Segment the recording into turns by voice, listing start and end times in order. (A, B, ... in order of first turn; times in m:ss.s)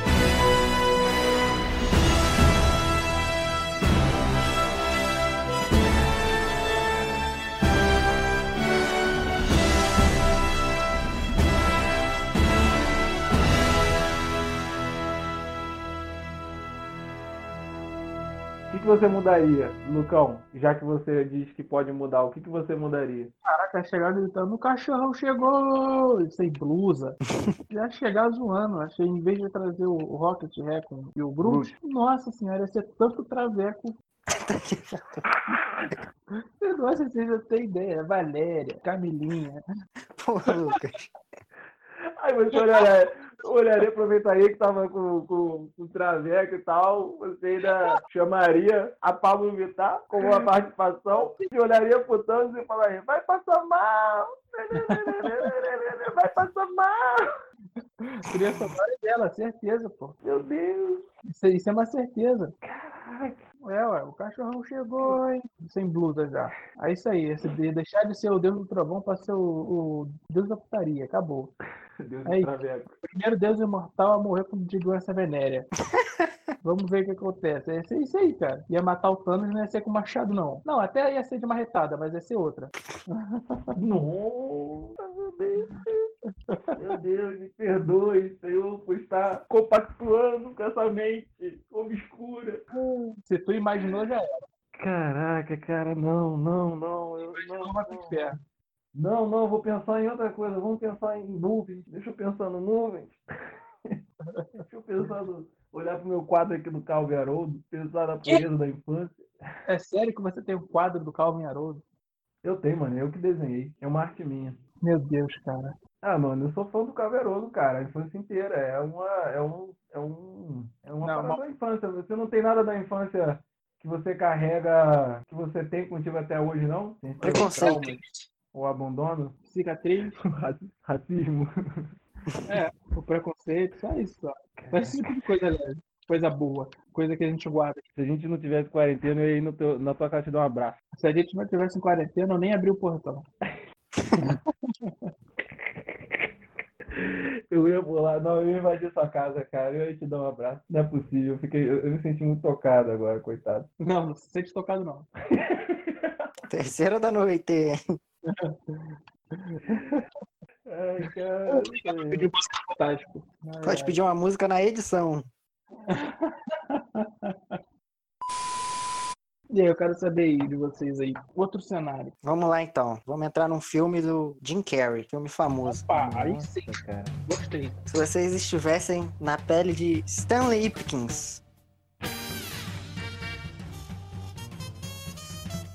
0:18.7-0:23.3 A
0:23.4-0:33.9 B
0:31.4-0:31.7 A
0:34.3-0:35.2 C
0:35.3-0:36.0 A
0:36.3-0:39.6 B
0:40.2-0:41.1 C
0:42.2-0:57.3 A
0:50.2-0:50.4 B
0:51.1-0:51.5 B
0:54.7-0:55.0 B
0:58.0-1:00.2 B
1:00.2-1:01.0 A
1:01.2-1:02.5 B
1:02.6-1:03.4 A
1:03.6-1:11.5 B
1:12.0-1:12.9 A
1:12.2-1:12.5 B
1:13.0-1:15.7 B
1:15.9-1:16.3 C
1:16.6-1:23.7 B
1:23.7-1:26.1 A
1:26.5-1:26.7 B
1:26.8-1:32.6 A
1:32.7-1:34.5 B
1:34.7-1:38.3 A
1:37.2-1:38.4 B
1:38.9-1:43.2 A
1:44.6-1:49.3 A
1:49.7-1:51.8 B
1:52.4-1:54.6 A
1:54.8-1:55.8 B
1:56.0-2:08.0 A
2:01.0-2:01.4 B
2:07.2-2:08.1 B
2:07.2-2:07.9 C
2:08.5-2:09.4 A
2:09.5-2:10.2 B
2:10.2-2:11.9 A
2:12.5-2:17.8 B
2:14.6-2:15.2 A
2:18.0-2:20.8 A
2:21.0-2:23.2 B
2:24.2-2:25.1 B
2:25.8-2:26.3 A
2:26.9-2:33.7 A
2:33.8-2:35.1 B
2:35.3-2:36.3 A
2:36.5-2:37.8 C
2:38.2-2:40.0 B
2:40.6-2:42.3 A
2:41.0-2:44.0 B
2:43.6-2:45.3 C
2:45.9-2:47.6 B
2:49.5-2:52.1 B
2:52.2-2:55.8 C
2:55.6-2:57.8 B
2:55.9-2:57.2 A
2:57.9-3:01.4 C